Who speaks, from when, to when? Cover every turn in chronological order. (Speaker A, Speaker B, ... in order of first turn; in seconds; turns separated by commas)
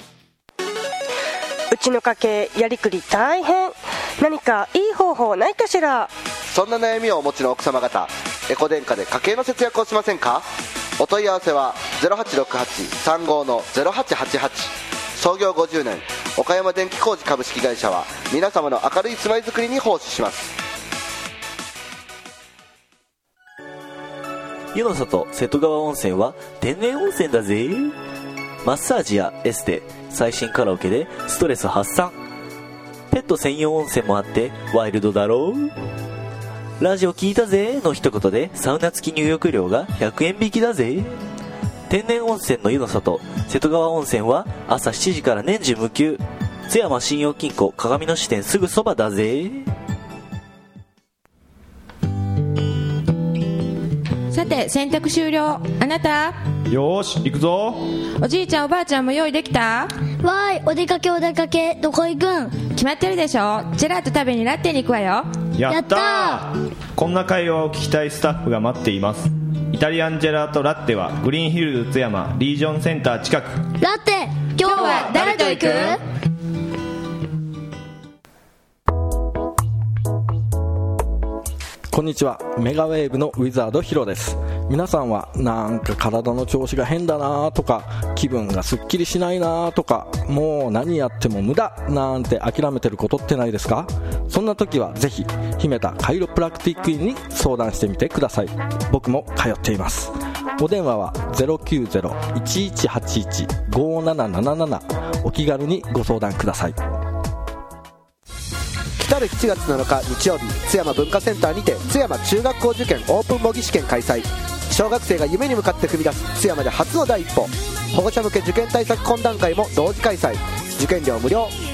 Speaker A: 1.7-6.1, Speaker B: 6.5-10.5, Speaker B: 11.0-20.6, Speaker C: 24.7-27.9, Speaker C: 28.6-32.1, Speaker C: 33.1-35.7, Speaker C: 36.8-41.2, Speaker C: 41.9-49.7, Speaker D: 54.3-56.4, Speaker E: 56.7-57.9, Speaker D: 58.2-59.9, Speaker F: 60.2-62.6, Speaker D: 62.6-65.3, Speaker E: 65.6-73.7, Speaker F: 65.7-66.5, Speaker F: 73.8-76.0, Speaker D: 74.6-76.0, Speaker E: 74.9-75.3, Speaker G: 81.9-106.8, Speaker B: 109.0-121.5